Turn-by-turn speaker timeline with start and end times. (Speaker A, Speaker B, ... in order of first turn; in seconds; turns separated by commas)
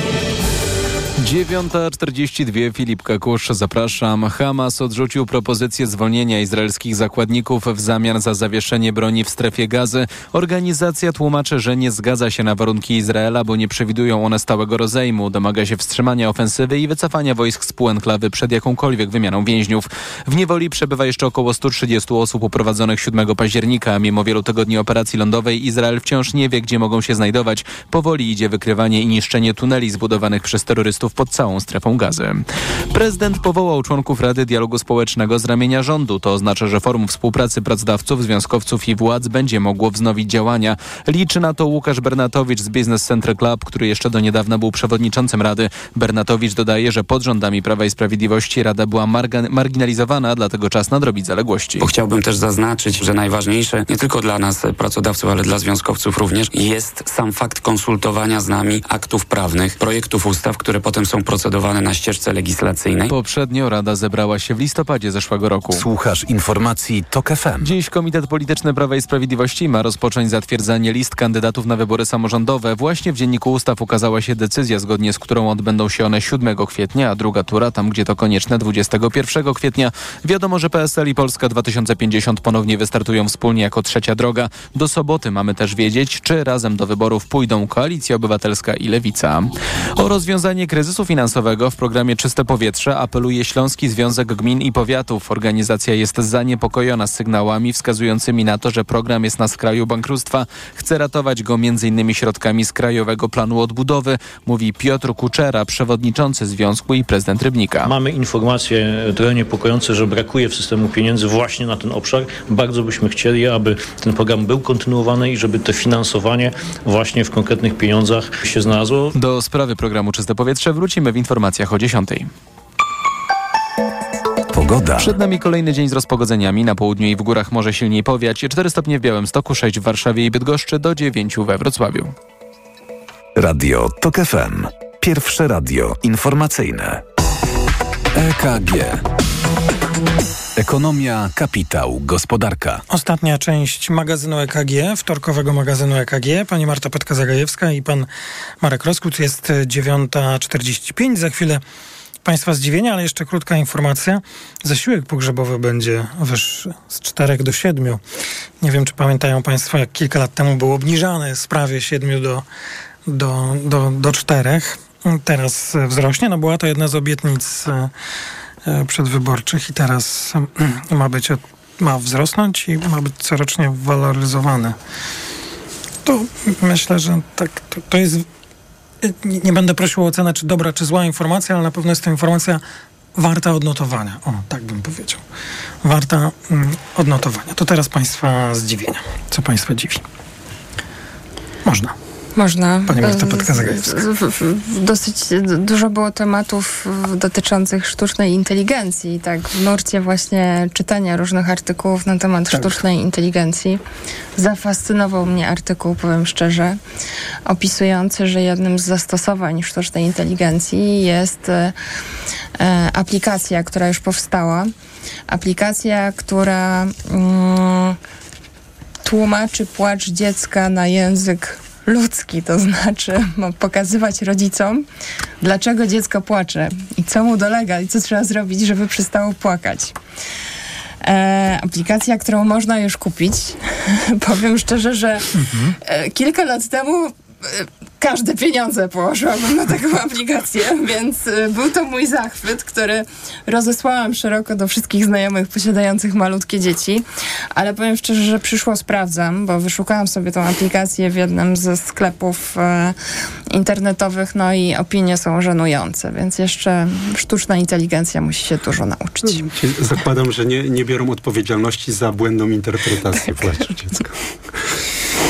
Speaker A: 1.2-51.9, Speaker B: 51.8-63.1, Speaker A: 63.1-65.8, Speaker C: 65.7-67.7, Speaker A: 67.6-107.9, Speaker D: 107.8-119.1, Speaker A: 119.1-122.3, Speaker C: 124.5-125.2, Speaker A: 125.0-132.1, Speaker C: 133.4-137.0, Speaker C: 138.1-139.1, Speaker C: 140.6-142.8, Speaker E: 142.9-148.1, Speaker E: 148.6-151.6, Speaker E: 152.2-158.0, Speaker E: 158.6-162.4, Speaker E: 163.1-167.9, Speaker E: 168.7-174.8, Speaker E: 176.1-178.3, Speaker E: 179.0-182.6, Speaker E: 183.2-185.2, Speaker E: 185.8-190.0, Speaker E: 191.7-191.9, Speaker F: 192.4-203.8, Speaker E: 192.9-194.0, Speaker F: 204.4-206.8, Speaker F: 207.5-211.8, Speaker F: 212.6-214.7, Speaker F: 215.3-218.0, Speaker F: 219.0-224.8, Speaker F: 225.4-230.0, Speaker F: 231.0-235.3, Speaker E: 235.4-235.7, Speaker F: 235.8-253.0, Speaker F: 253.5-259.4, Speaker G: 259.3-264.1